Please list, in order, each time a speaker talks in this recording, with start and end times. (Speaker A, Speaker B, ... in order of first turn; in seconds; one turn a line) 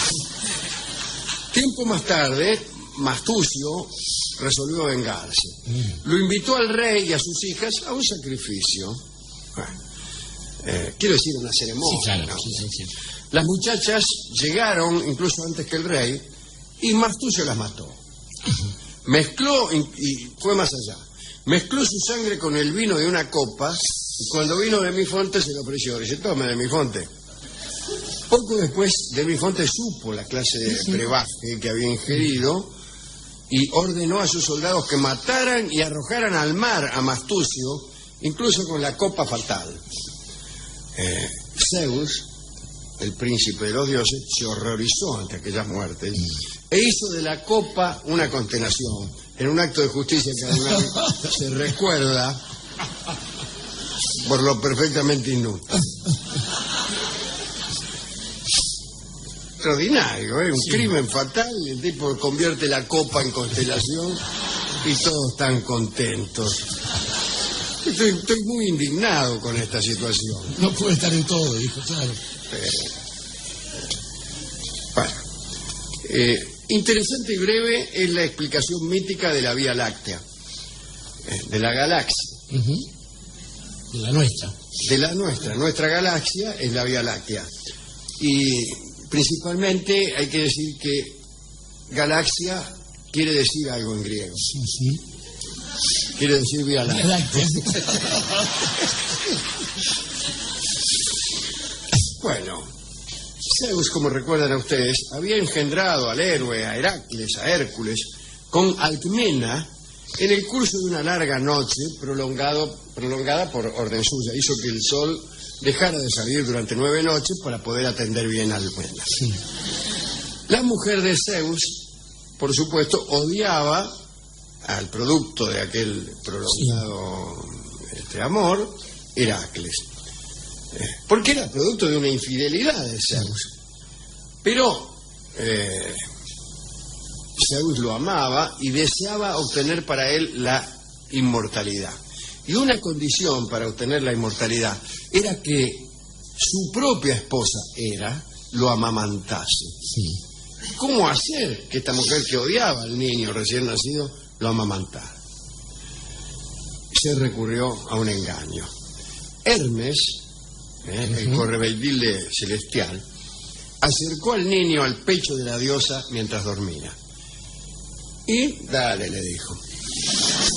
Speaker A: 1.5-9.0
Speaker A: 10.6-12.7
Speaker B: 11.9-12.9
Speaker A: 13.3-16.2
Speaker A: 16.8-18.0
Speaker A: 19.1-27.1
Speaker A: 28.3-32.7
Speaker A: 33.5-39.8
Speaker A: 41.0-42.3
Speaker A: 43.0-52.4
Speaker A: 54.2-55.9
Speaker A: 59.6-64.2
Speaker A: 64.8-66.7
Speaker A: 67.8-70.6
Speaker B: 70.5-72.2
Speaker A: 72.5-72.9
Speaker A: 75.0-75.2
Speaker A: 76.0-80.2
Speaker A: 81.2-82.4
Speaker B: 82.5-82.8
Speaker B: 83.9-84.5
Speaker A: 84.8-87.5
Speaker A: 88.2-91.2
Speaker A: 91.9-94.5
Speaker B: 94.6-95.0
Speaker A: 96.2-97.6
Speaker B: 96.9-98.2
Speaker A: 102.2-102.7
Speaker A: 103.5-119.2
Speaker A: 120.5-121.9
Speaker A: 122.4-123.9
Speaker A: 124.6-129.9
Speaker A: 130.7-133.5
Speaker A: 134.4-136.0
Speaker A: 137.4-149.8
Speaker A: 150.8-155.2
Speaker A: 156.9-158.7
Speaker A: 159.4-160.2
Speaker A: 160.8-163.0
Speaker A: 163.8-167.0
Speaker A: 168.3-169.6